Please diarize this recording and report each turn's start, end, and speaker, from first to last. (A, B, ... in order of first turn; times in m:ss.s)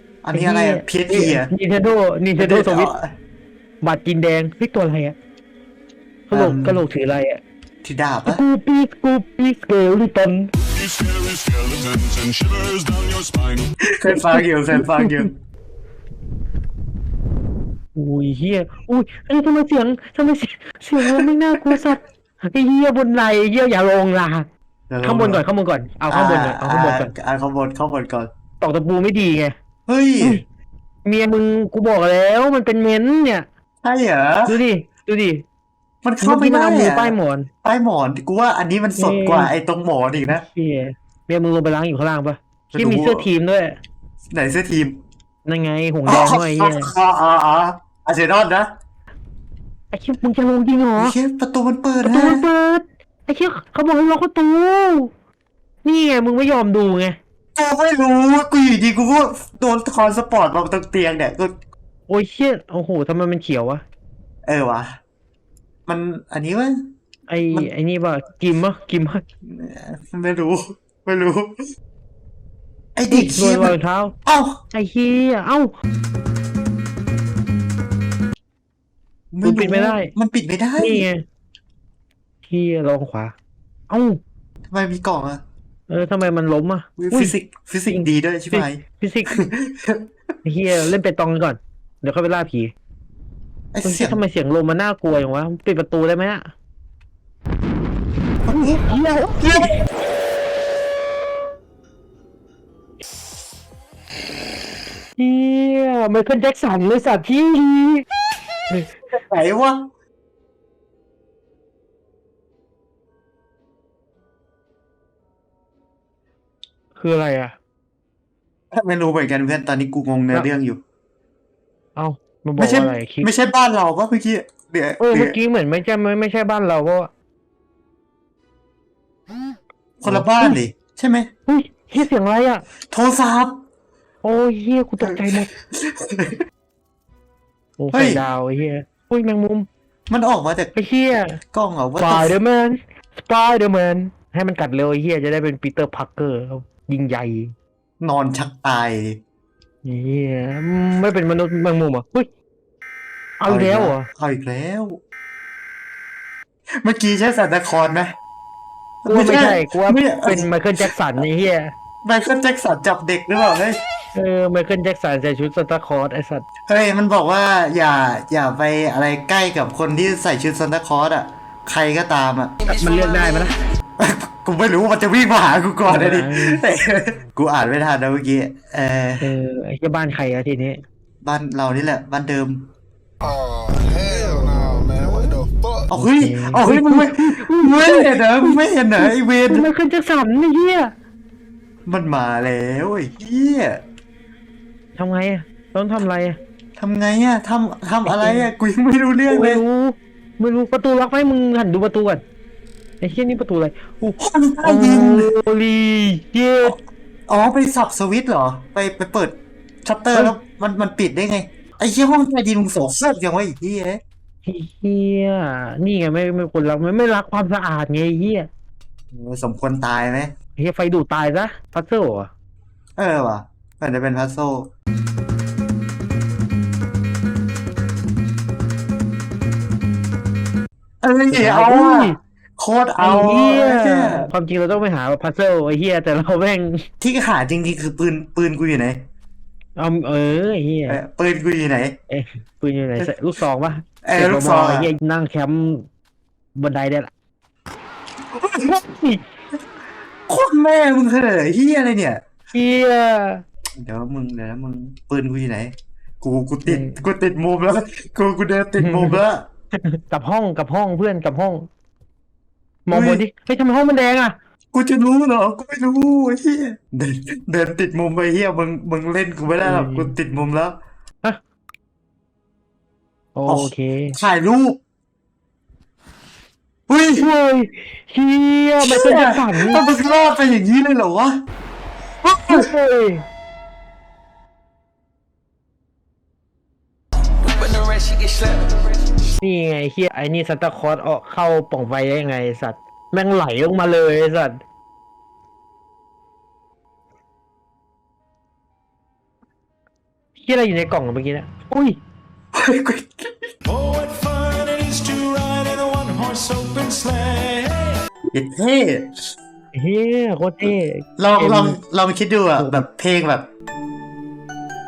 0:00.2-0:01.5 A
0:00.3-0:02.9 B
0:02.4-0:03.1 A
0:03.8-0:05.2 B
0:06.3-0:07.4 B
0:06.3-0:06.8 A
0:07.8-0:08.4 A
0:08.3-0:10.5 B
0:10.7-0:13.7 C
0:13.9-0:15.3 A
0:14.1-0:15.2 B
0:18.0-0:24.5 B
0:24.9-0:25.4 A
0:25.0-0:27.1 B
0:26.1-0:28.3 A
0:28.6-0:29.6 B
0:29.9-0:30.4 A
0:31.1-0:33.5 B
0:33.8-0:34.6 A
0:34.5-0:35.4 B
0:36.0-0:40.4 A
0:36.2-0:37.5 B
0:39.0-0:39.5 B
0:40.3-0:43.8 B
0:42.7-0:43.3 A
0:44.3-0:45.0 A
0:45.5-0:46.9 B
0:46.1-0:48.7 A
0:49.9-0:51.2 B
0:51.0-0:52.4 A
0:52.0-0:55.1 B
0:55.8-0:57.2 B
0:57.6-1:01.5 A
1:02.1-1:03.8 B
1:04.5-1:05.0 A
1:05.9-1:06.8 A
1:07.3-1:09.2 B
1:09.4-1:11.7 A
1:13.0-1:14.6 A
1:13.1-1:14.2 B
1:14.7-1:15.7 B
1:19.3-1:21.0 A
1:19.4-1:20.1 B
1:20.8-1:21.2 B
1:22.5-1:23.3 B
1:23.9-1:24.2 B
1:24.7-1:25.4 A
1:25.9-1:29.5 B
1:27.0-1:28.8 A
1:29.3-1:30.1 A
1:30.4-1:32.7 B
1:33.7-1:34.2 A
1:33.8-1:36.5 B
1:38.5-1:38.8 A
1:38.5-1:39.8 B
1:39.4-1:39.7 A
1:45.2-1:48.0 B
1:49.1-1:49.9 A
1:57.0-1:57.6 B
1:58.7-2:00.8 A
2:02.0-2:03.3 B
2:02.6-2:05.4 A
2:05.0-2:07.1 B
2:10.0-2:11.3 A
2:10.0-2:10.6 B
2:11.5-2:12.6 B
2:12.9-2:13.6 A
2:14.2-2:15.5 B
2:15.1-2:16.4 A
2:17.8-2:19.7 B
2:17.9-2:18.2 A
2:20.1-2:20.7 A
2:20.8-2:21.4 B
2:21.5-2:22.4 A
2:22.0-2:27.5 B
2:28.0-2:29.2 A
2:29.8-2:32.3 B
2:33.4-2:34.1 B
2:33.5-2:35.0 A
2:36.8-2:38.1 A
2:39.0-2:40.9 A
2:39.1-2:41.7 B
2:42.0-2:43.8 A
2:44.2-2:46.5 B
2:46.7-2:52.6 A
2:52.6-2:53.6 B
2:54.0-2:59.3 A
2:55.9-2:56.6 B
2:59.2-3:00.8 B
3:01.2-3:02.7 A
3:03.7-3:05.7 D
3:05.9-3:09.7 A
3:06.0-3:10.9 B
3:11.9-3:13.8 A
3:15.0-3:16.4 B
3:16.8-3:19.6 A
3:18.1-3:18.5 B
3:19.3-3:22.2 B
3:23.0-3:26.8 B
3:24.2-3:25.3 A
3:27.3-3:34.0 A
3:34.5-3:38.5 B
3:39.1-3:40.3 A
3:40.6-3:42.3 B
3:43.0-3:44.7 A
3:51.0-3:54.3 A
3:51.3-3:52.2 B
3:53.0-3:56.8 B
3:57.0-3:59.0 A
3:59.8-4:01.0 B
4:00.9-4:02.0 A
4:02.1-4:05.9 B
4:04.0-4:04.9 A
4:06.6-4:07.1 B
4:08.6-4:09.2 B
4:10.3-4:12.2 A
4:12.5-4:13.4 B
4:13.8-4:19.4 A
4:16.6-4:17.0 B
4:18.8-4:19.2 B
4:19.8-4:21.7 B
4:22.9-4:24.4 B
4:22.9-4:23.2 A
4:24.7-4:30.8 A
4:29.6-4:30.2 B
4:33.4-4:34.2 B
4:33.5-4:34.8 A
4:36.9-4:37.3 A
4:37.1-4:39.8 B
4:38.8-4:41.4 A
4:42.2-4:42.7 A
4:42.5-4:43.3 B
4:49.4-4:54.6 B
5:00.4-5:02.0 B
5:02.6-5:03.4 A
5:03.6-5:08.0 C
5:08.3-5:09.2 A
5:09.7-5:11.8 B
5:11.2-5:13.5 A
5:12.6-5:12.9 B